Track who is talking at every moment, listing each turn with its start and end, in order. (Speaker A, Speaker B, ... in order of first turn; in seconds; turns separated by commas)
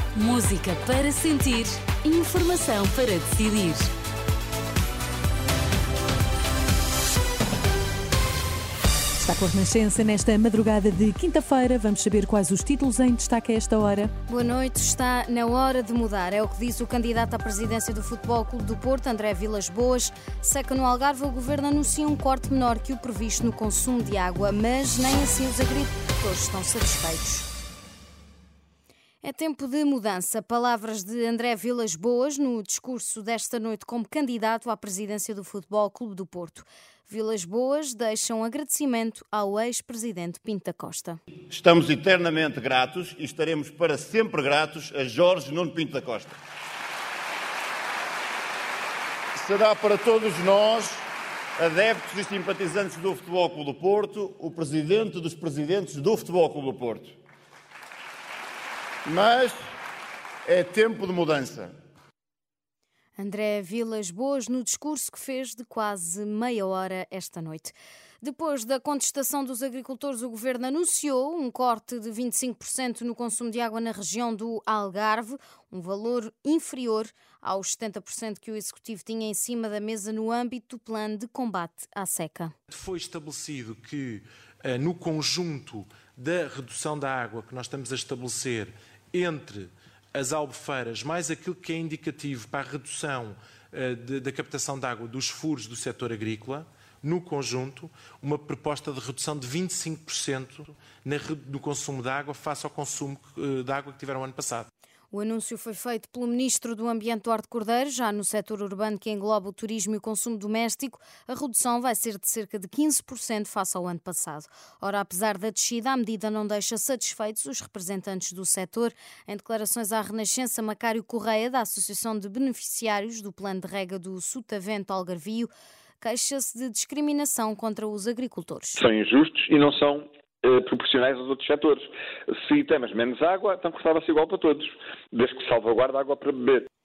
Speaker A: 0.1-3.9, Speaker B: 9.2-14.1, Speaker C: 14.3-27.5, Speaker C: 29.2-41.2, Speaker D: 41.5-46.4, Speaker D: 49.4-51.0, Speaker D: 51.6-57.1, Speaker D: 59.1-59.7, Speaker D: 60.5-61.7, Speaker C: 63.2-82.5, Speaker E: 82.7-104.7, Speaker C: 105.1-125.5, Speaker C: 126.0-128.8, Speaker F: 128.8-136.7